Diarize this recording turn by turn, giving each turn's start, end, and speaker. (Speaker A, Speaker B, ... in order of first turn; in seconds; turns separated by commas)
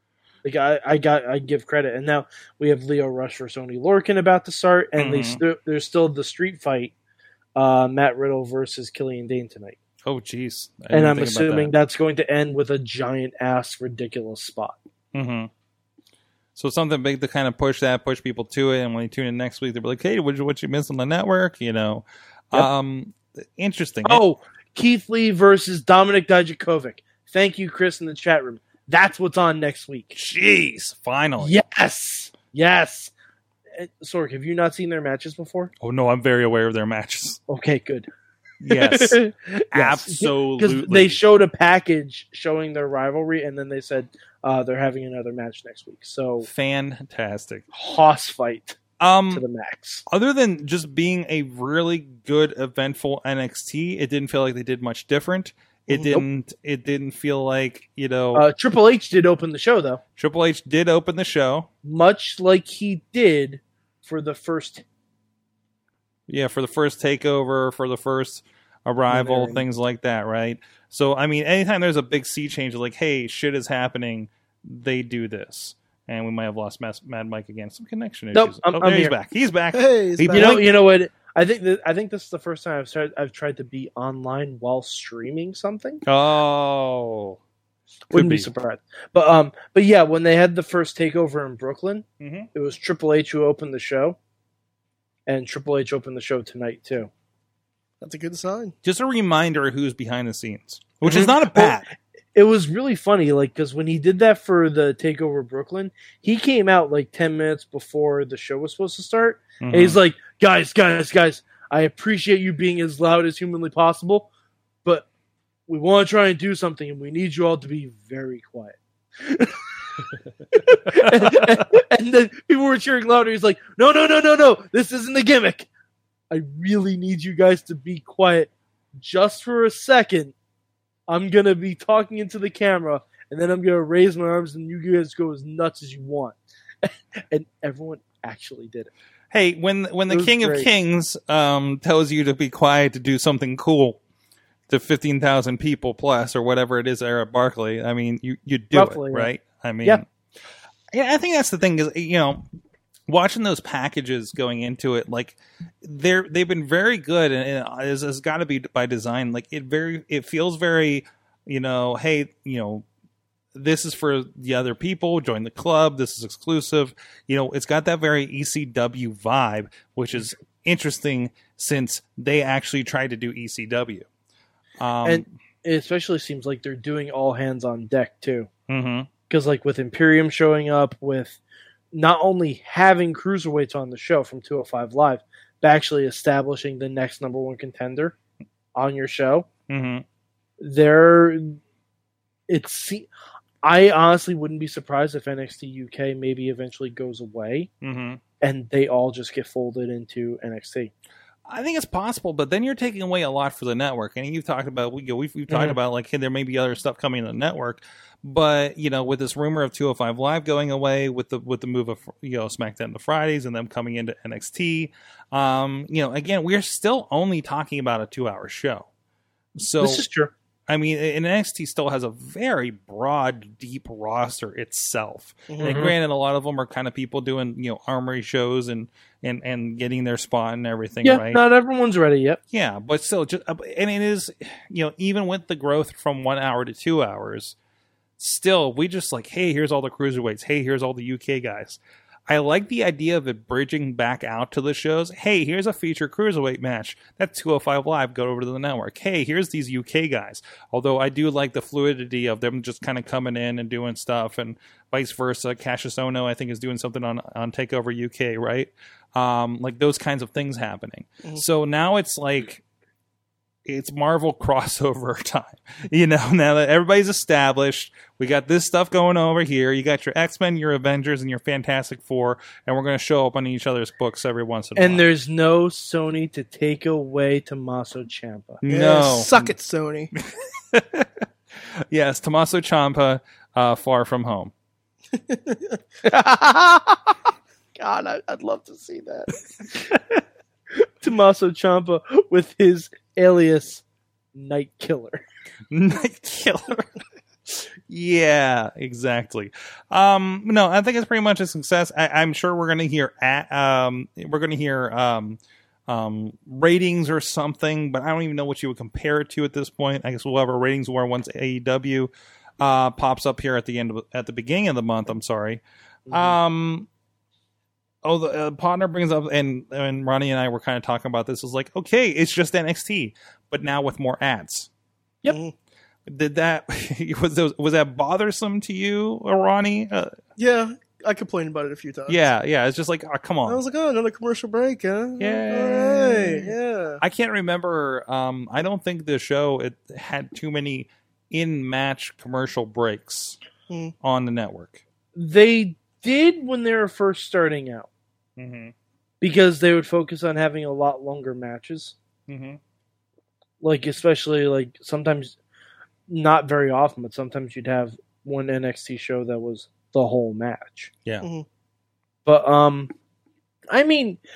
Speaker A: 0.4-6.9, Speaker B: 5.0-5.4, Speaker A: 7.5-9.8, Speaker B: 10.0-11.7, Speaker A: 10.9-14.8, Speaker B: 15.1-15.5, Speaker B: 16.6-24.2, Speaker A: 24.0-30.1, Speaker B: 30.1-31.6, Speaker A: 31.4-33.1, Speaker A: 33.8-35.7, Speaker B: 35.8-37.4, Speaker A: 37.5-38.1, Speaker B: 38.6-41.2, Speaker A: 38.7-46.5, Speaker B: 46.4-47.6, Speaker A: 47.7-48.8, Speaker B: 49.0-49.4, Speaker A: 49.3-50.0, Speaker B: 50.1-58.5, Speaker A: 58.3-60.0, Speaker B: 60.2-61.7, Speaker A: 61.8-64.8, Speaker B: 66.3-80.7, Speaker A: 69.1-69.6, Speaker A: 78.3-79.1, Speaker C: 79.7-80.7, Speaker A: 80.3-86.0, Speaker B: 86.0-87.4, Speaker A: 88.1-94.2, Speaker B: 88.1-88.5, Speaker B: 92.2-92.5, Speaker A: 95.3-97.1, Speaker C: 98.0-98.7, Speaker B: 98.8-101.8, Speaker A: 101.0-101.8, Speaker A: 102.3-114.3, Speaker B: 109.6-110.0, Speaker A: 115.7-119.6, Speaker A: 120.5-125.7, Speaker A: 126.3-130.3, Speaker A: 131.1-138.9, Speaker B: 139.3-144.0, Speaker A: 140.1-140.7, Speaker B: 144.7-150.0, Speaker A: 148.7-149.3, Speaker B: 150.9-152.4, Speaker B: 153.1-162.8, Speaker B: 163.5-174.1, Speaker B: 174.8-175.3, Speaker A: 175.0-178.5, Speaker B: 178.7-179.1, Speaker A: 179.3-181.4, Speaker A: 181.9-188.1, Speaker A: 188.7-189.5, Speaker B: 189.7-190.0, Speaker A: 190.6-191.6, Speaker A: 192.5-193.1, Speaker A: 193.6-197.7, Speaker B: 197.8-198.2, Speaker A: 198.4-200.9, Speaker B: 201.5-218.9, Speaker A: 205.5-205.8, Speaker B: 219.6-220.0, Speaker A: 219.8-220.3, Speaker B: 220.7-231.4, Speaker C: 225.5-225.9, Speaker A: 225.6-225.9, Speaker A: 231.0-232.4, Speaker B: 232.5-237.5, Speaker B: 238.2-262.6, Speaker B: 263.6-275.1, Speaker A: 274.8-278.6, Speaker B: 278.6-279.5, Speaker C: 278.7-280.1, Speaker B: 280.2-281.2, Speaker B: 281.9-284.5, Speaker C: 285.1-285.8, Speaker A: 286.0-287.2, Speaker A: 287.8-289.8, Speaker A: 290.7-293.8, Speaker A: 294.3-295.2, Speaker B: 295.7-296.9, Speaker B: 297.5-316.9, Speaker A: 316.1-316.4, Speaker B: 318.0-324.7, Speaker C: 325.3-325.5, Speaker B: 326.1-330.1, Speaker C: 330.4-332.2, Speaker B: 332.1-333.6, Speaker C: 333.4-337.0, Speaker B: 335.2-336.5, Speaker B: 337.0-343.4, Speaker C: 343.7-343.9, Speaker B: 344.0-344.8, Speaker A: 345.1-347.9, Speaker B: 348.4-348.7, Speaker A: 349.2-351.9, Speaker B: 352.3-352.6, Speaker A: 353.6-355.4, Speaker A: 356.1-360.9, Speaker A: 362.2-362.9, Speaker A: 363.7-364.2